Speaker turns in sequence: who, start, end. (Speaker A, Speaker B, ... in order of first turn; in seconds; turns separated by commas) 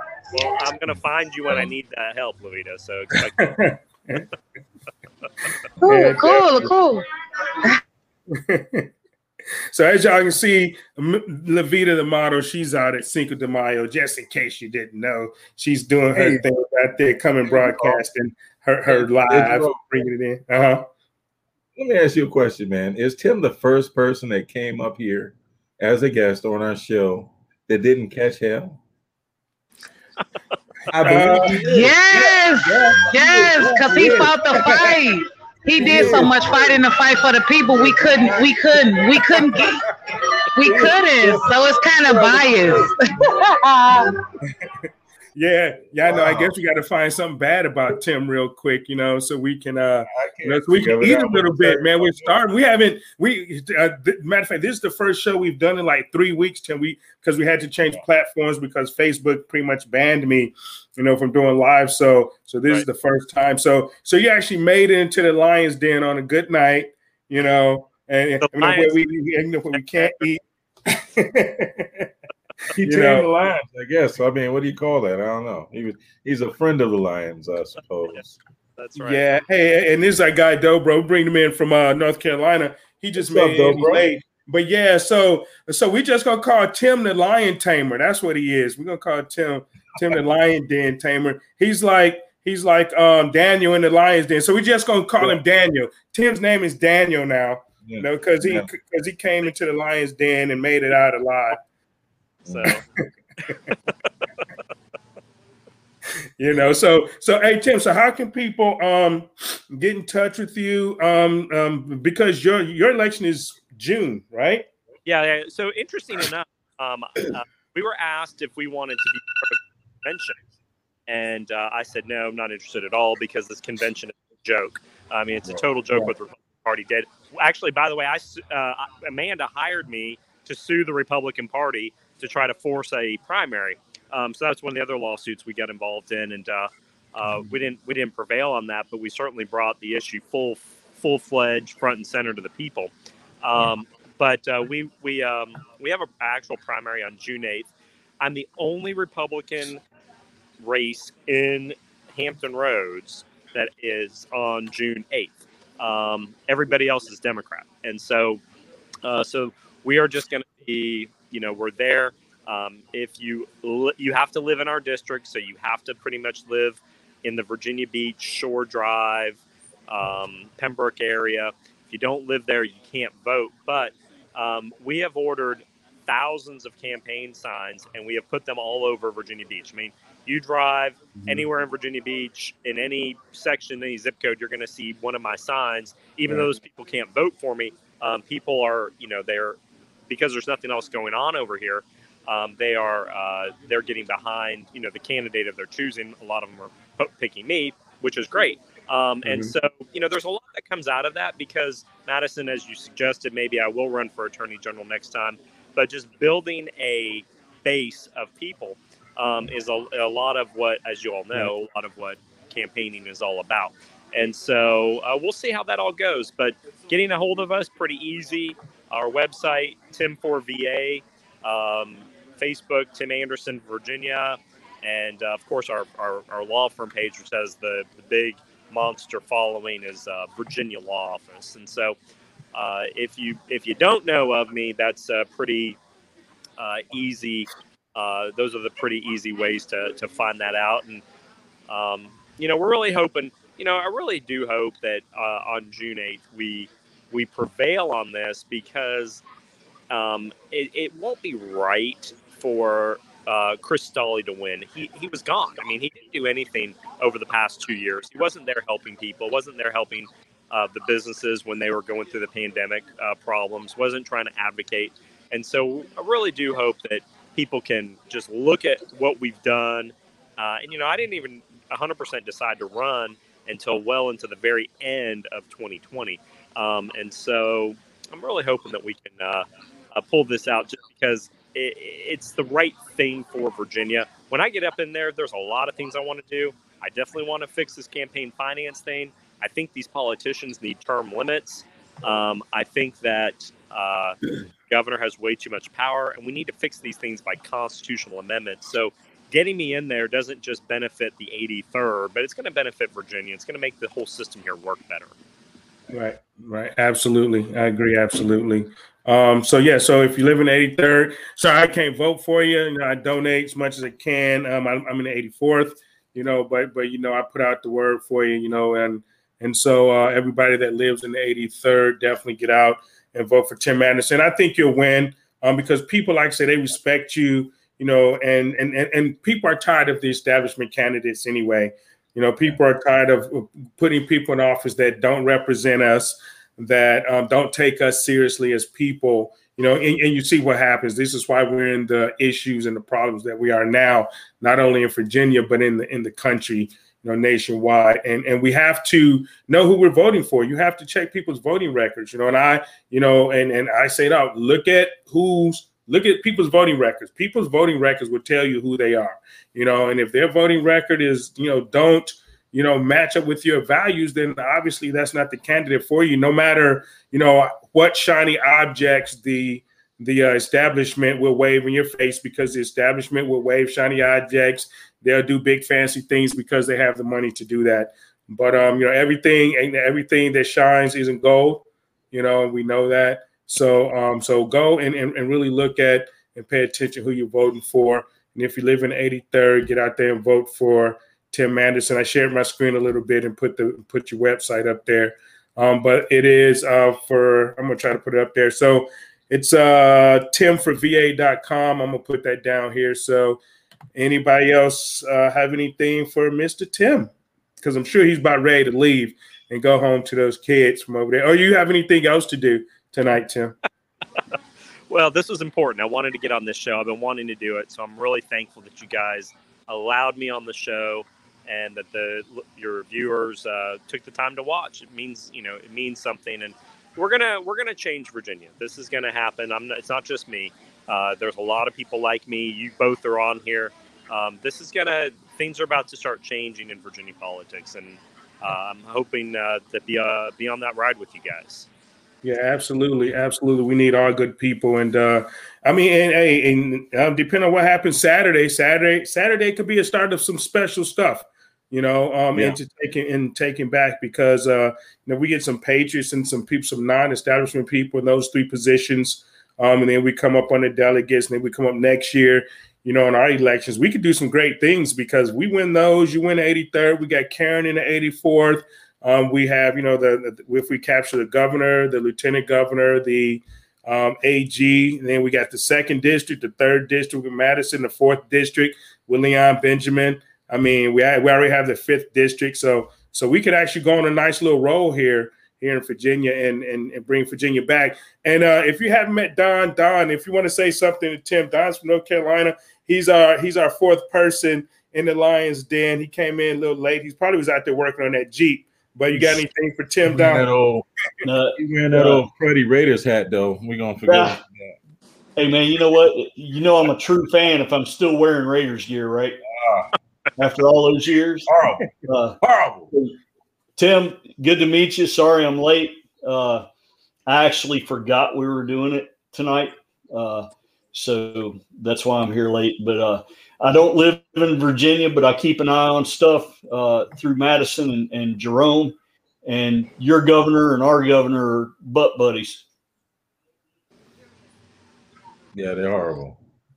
Speaker A: 0.3-3.5, Speaker B: 3.4-4.2, Speaker C: 5.8-7.0, Speaker B: 5.8-6.7, Speaker B: 8.3-8.9, Speaker B: 9.7-20.9, Speaker D: 16.1-16.4, Speaker D: 17.4-18.0, Speaker D: 18.9-19.8, Speaker D: 21.8-28.8, Speaker D: 30.9-34.7, Speaker B: 31.0-31.9, Speaker C: 31.6-39.8, Speaker B: 33.9-35.0, Speaker B: 35.8-36.4, Speaker D: 35.8-36.5, Speaker B: 37.8-38.5, Speaker D: 37.9-38.4, Speaker B: 39.1-39.8, Speaker C: 40.5-44.1, Speaker D: 40.6-41.5, Speaker D: 42.1-42.9, Speaker B: 42.1-42.8, Speaker B: 45.4-72.1, Speaker D: 46.0-46.5, Speaker D: 50.0-52.4, Speaker A: 68.4-69.0, Speaker A: 69.8-70.2, Speaker D: 72.7-78.3, Speaker B: 72.8-73.3, Speaker A: 78.8-79.4, Speaker B: 79.0-101.6, Speaker D: 83.2-84.1, Speaker D: 97.8-98.7, Speaker D: 102.4-102.8, Speaker A: 102.5-102.8, Speaker B: 106.4-114.7, Speaker A: 115.0-120.4, Speaker A: 121.1-142.9, Speaker A: 143.4-147.7, Speaker A: 148.2-149.8, Speaker A: 150.6-158.4, Speaker A: 159.0-231.9, Speaker B: 199.2-199.5, Speaker A: 232.5-235.8, Speaker A: 236.6-241.0, Speaker A: 241.7-249.2, Speaker A: 249.9-294.2, Speaker A: 294.7-305.1, Speaker B: 305.9-403.4, Speaker B: 403.9-407.1, Speaker B: 407.6-413.6, Speaker A: 414.9-441.7, Speaker B: 442.2-500.5, Speaker D: 500.1-500.9, Speaker E: 501.2-502.2, Speaker D: 501.6-504.8, Speaker E: 504.1-504.4, Speaker E: 505.4-509.4, Speaker D: 509.5-509.9, Speaker E: 510.4-511.5, Speaker D: 511.5-512.9, Speaker E: 512.0-512.4, Speaker E: 513.8-516.7, Speaker E: 517.3-532.6, Speaker D: 535.5-536.4